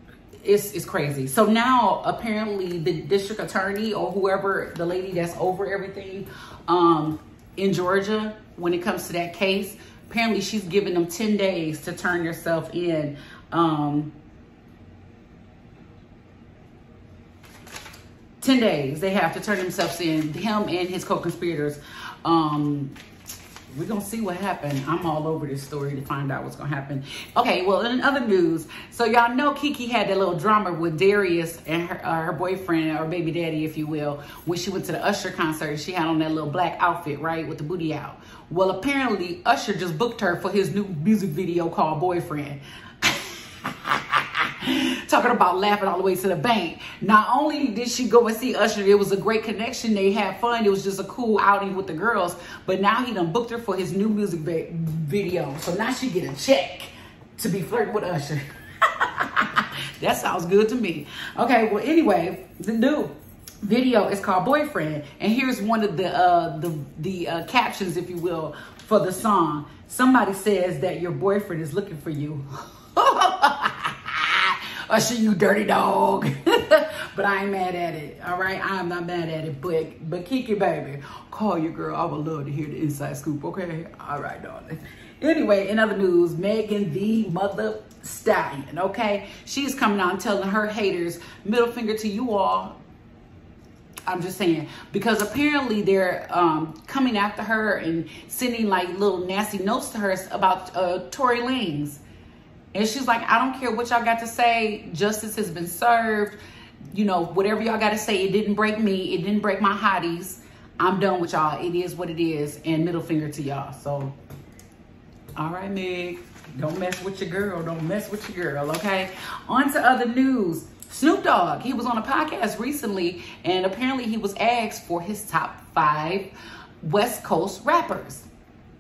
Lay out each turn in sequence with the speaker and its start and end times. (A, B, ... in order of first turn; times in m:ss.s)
0:00.4-0:14.1 A
0:18.4-0:23.0 A
0:23.7-0:43.2 A
0:43.8-0:58.4 A
0:59.0-1:03.1 A
1:03.6-1:32.8 A
1:34.1-1:42.0 A
1:42.7-1:46.4 A
1:46.9-1:54.2 A
1:55.4-2:06.3 A
2:06.8-2:08.3 A